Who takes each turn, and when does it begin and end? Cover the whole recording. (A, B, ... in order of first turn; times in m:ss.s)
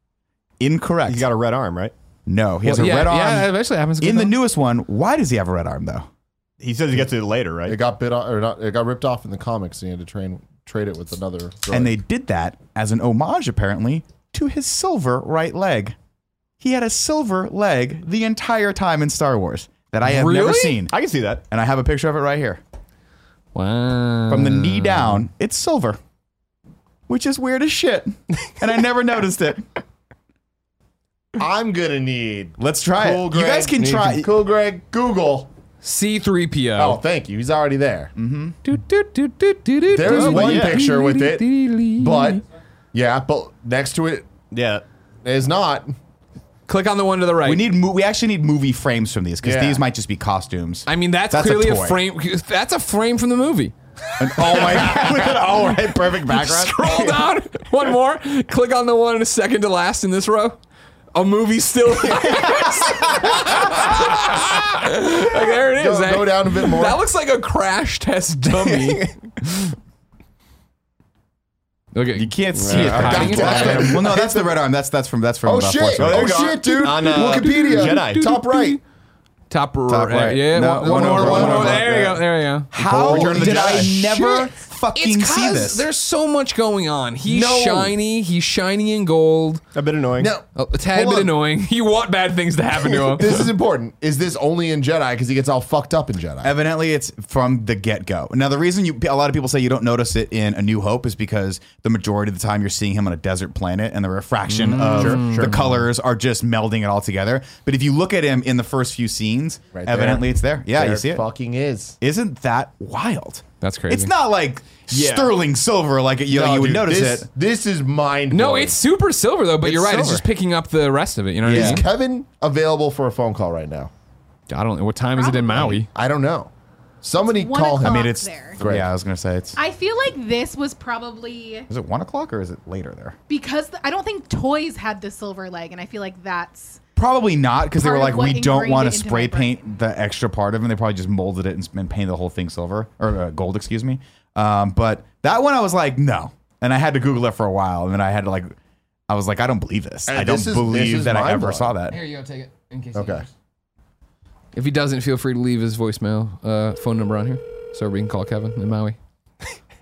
0:00.6-0:01.3 A
0:01.1-0:01.9 B
0:02.3-0:06.1 A
0:02.6-0:04.4 C
0:06.6-0:07.8 B
0:07.7-0:12.0 D
0:11.7-0:16.0 A
0:16.6-0:20.9 A
0:20.0-0:20.8 C
0:20.9-0:21.4 B
0:21.5-0:22.6 A
0:23.5-0:25.2 C
0:24.3-0:26.0 A
0:27.1-0:29.6 A
0:31.4-0:35.5 D
0:32.6-0:34.3 A
0:35.8-0:37.0 C
0:36.8-0:38.1 D
0:38.2-0:38.6 A
0:38.6-0:42.4 C
0:39.9-0:44.3 D
0:40.1-0:40.8 A
0:44.5-0:44.8 B
0:45.2-0:46.0 D
0:46.7-0:47.7 C
0:47.4-0:52.0 A
0:49.4-0:49.8 D
0:50.9-0:53.7 C
0:54.2-0:56.9 A
0:54.3-1:00.6 C
1:01.1-1:09.8 C
1:02.3-1:03.8 A
1:05.6-1:07.0 D
1:08.6-1:09.1 B
1:11.9-1:13.9 C
1:12.2-1:16.7 A
1:12.6-1:14.0 B
1:12.7-1:14.6 D
1:15.4-1:18.8 D
1:16.0-1:18.3 B
1:16.6-1:18.8 C
1:19.5-1:22.7 C
1:19.9-1:22.1 A
1:20.8-1:22.2 D
1:21.0-1:22.0 B
1:22.7-1:25.8 A
1:22.8-1:23.9 B
1:22.8-1:24.5 D
1:25.0-1:29.6 C
1:27.3-1:27.9 D
1:29.8-1:30.3 B
1:30.2-1:31.3 D
1:30.6-1:33.5 C
1:32.9-1:36.5 D
1:36.4-1:51.3 A
1:44.7-1:45.8 C
1:44.7-1:45.6 B
1:49.7-1:52.0 D
1:52.0-1:57.3 A
1:53.6-1:54.1 C
1:54.9-1:55.3 B
1:56.3-1:58.8 D
1:58.3-2:01.9 C
1:59.6-2:00.2 D
1:59.9-2:00.2 A
2:01.4-2:01.8 A
2:01.5-2:03.9 D
2:04.5-2:05.9 C
2:05.2-2:05.8 E
2:05.5-2:06.5 D
2:07.0-2:08.9 D
2:07.2-2:08.6 E
2:07.8-2:09.6 A
2:09.6-2:11.7 E
2:11.7-2:13.2 A
2:13.3-2:16.8 E
2:17.0-2:28.6 A
2:17.8-2:19.6 E
2:29.1-2:32.0 A
2:30.1-2:31.7 D
2:31.9-2:33.3 C
2:32.9-2:33.3 D
2:34.5-2:39.0 C